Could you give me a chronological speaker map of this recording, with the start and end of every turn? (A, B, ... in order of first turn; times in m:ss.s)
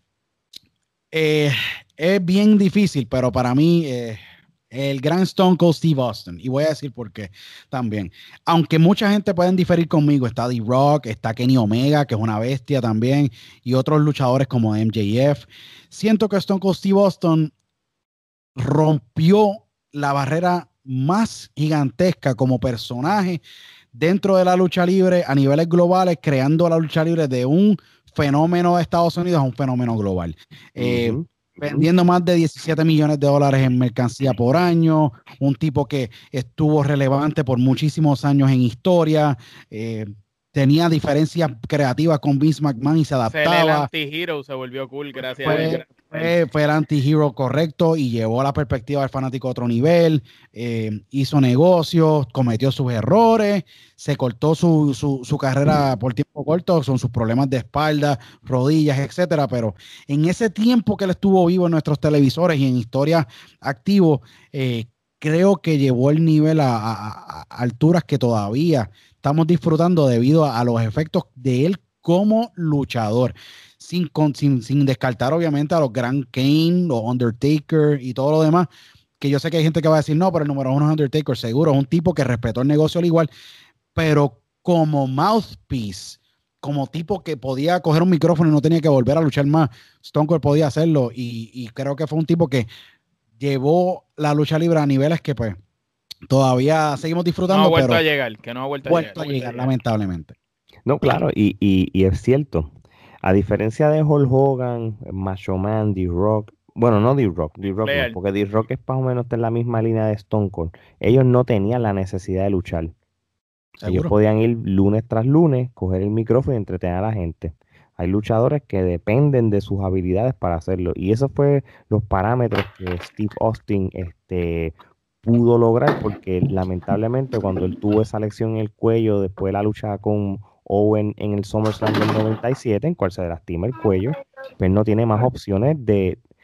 0:01.1-0:17.5 A
0:18.6-0:23.4 A
0:23.9-0:43.9 A
0:30.8-0:31.9 B
0:43.3-0:46.3 C
0:45.4-1:18.7 A
1:19.2-1:23.3 A
1:24.0-1:32.7 A
1:33.4-1:35.6 A
1:36.3-1:38.0 A
1:37.5-1:39.7 C
1:38.9-1:40.4 A
1:40.9-1:42.7 B
1:43.2-1:52.9 B
1:47.8-1:48.2 C
1:53.8-2:16.2 B
1:53.8-1:54.1 A